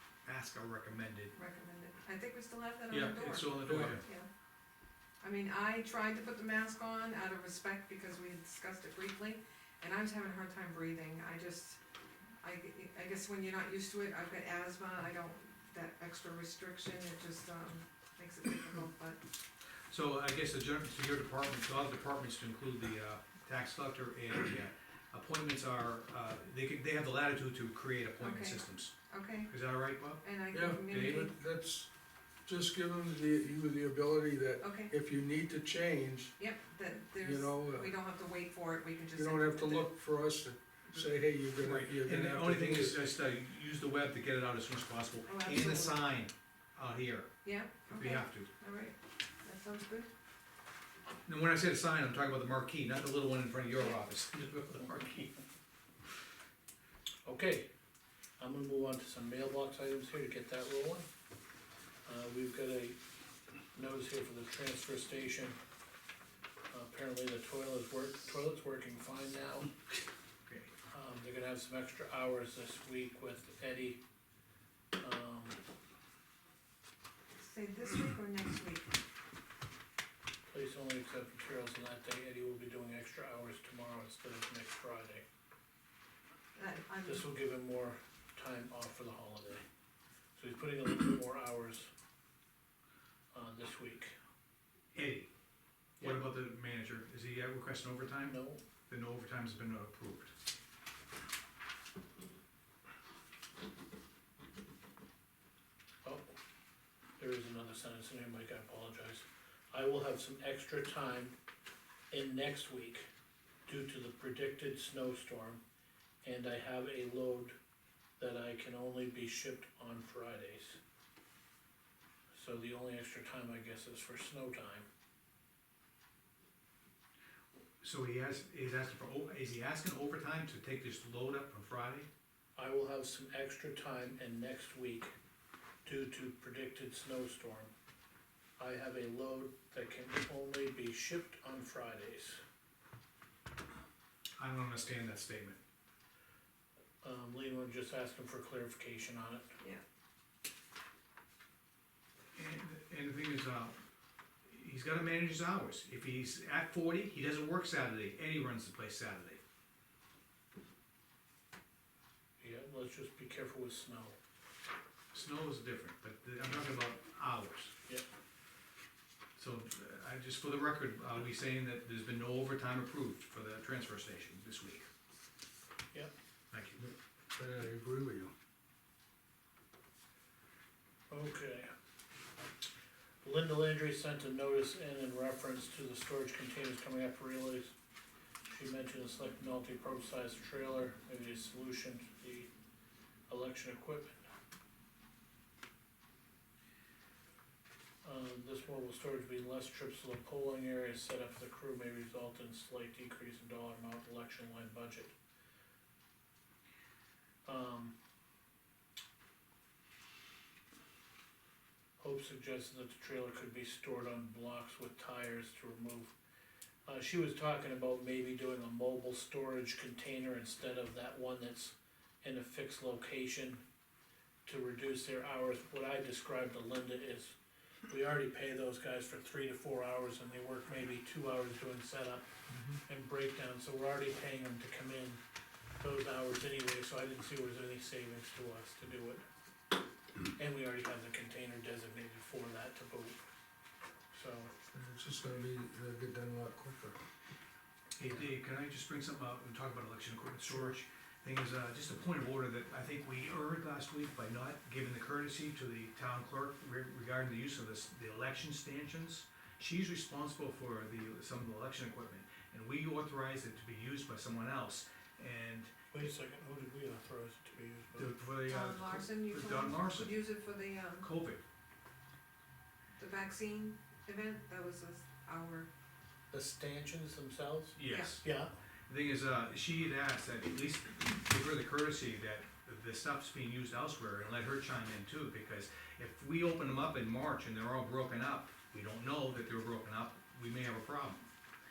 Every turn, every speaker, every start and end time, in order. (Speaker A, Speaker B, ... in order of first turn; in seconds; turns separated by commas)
Speaker A: 0.2-1.3, Speaker B: 1.3-4.3, Speaker A: 2.9-4.0, Speaker C: 3.6-4.0, Speaker B: 5.2-11.8, Speaker B: 12.4-19.2, Speaker A: 19.9-28.9, Speaker B: 28.2-29.5, Speaker A: 29.5-30.2, Speaker B: 30.2-31.3, Speaker C: 30.5-31.9, Speaker A: 30.9-31.3, Speaker C: 32.4-36.4, Speaker B: 34.6-34.9, Speaker B: 36.4-39.8, Speaker C: 37.2-37.9, Speaker C: 39.1-43.0, Speaker A: 40.9-47.3, Speaker B: 45.2-46.0, Speaker B: 47.4-50.1, Speaker A: 47.9-48.5, Speaker A: 51.2-55.3, Speaker D: 57.2-57.7, Speaker D: 58.4-61.1, Speaker D: 62.0-63.0, Speaker D: 63.7-65.6, Speaker D: 66.7-69.7, Speaker A: 70.5-70.7, Speaker D: 70.9-74.0, Speaker D: 75.0-75.6, Speaker B: 77.4-78.9, Speaker D: 80.5-85.2, Speaker B: 86.5-87.2, Speaker D: 87.0-89.6, Speaker D: 90.3-91.9, Speaker D: 93.3-94.1, Speaker A: 94.9-95.3, Speaker D: 96.0-96.2, Speaker A: 96.0-98.4, Speaker D: 98.2-98.6, Speaker A: 98.9-100.3, Speaker D: 106.0-106.3, Speaker D: 107.2-111.3, Speaker D: 112.1-113.1, Speaker D: 113.7-115.6, Speaker D: 116.2-117.5, Speaker D: 118.2-120.8, Speaker D: 122.3-124.9, Speaker A: 127.8-132.1, Speaker D: 132.6-135.1, Speaker D: 135.8-137.7, Speaker D: 138.6-142.4, Speaker A: 144.4-145.6, Speaker D: 147.0-149.5, Speaker A: 152.3-153.8, Speaker A: 154.4-159.4, Speaker D: 162.4-164.2, Speaker A: 165.1-167.7, Speaker A: 169.3-174.9, Speaker A: 176.5-176.8, Speaker C: 176.8-178.3, Speaker D: 181.1-181.7, Speaker D: 183.2-187.7, Speaker D: 188.4-192.5, Speaker D: 193.3-194.2, Speaker D: 198.0-205.1, Speaker D: 207.4-207.9, Speaker D: 212.0-216.1, Speaker D: 216.8-223.6, Speaker D: 224.4-227.3, Speaker D: 227.9-232.2, Speaker D: 232.9-235.2, Speaker D: 235.8-239.2, Speaker D: 240.3-243.2, Speaker D: 244.1-244.5, Speaker C: 244.7-247.0, Speaker A: 248.0-265.7, Speaker D: 265.9-268.1, Speaker A: 267.9-270.1, Speaker B: 268.4-271.1, Speaker A: 271.0-271.4, Speaker B: 273.0-275.7, Speaker D: 276.3-278.5, Speaker A: 277.8-278.3, Speaker B: 277.9-278.2, Speaker A: 278.9-291.3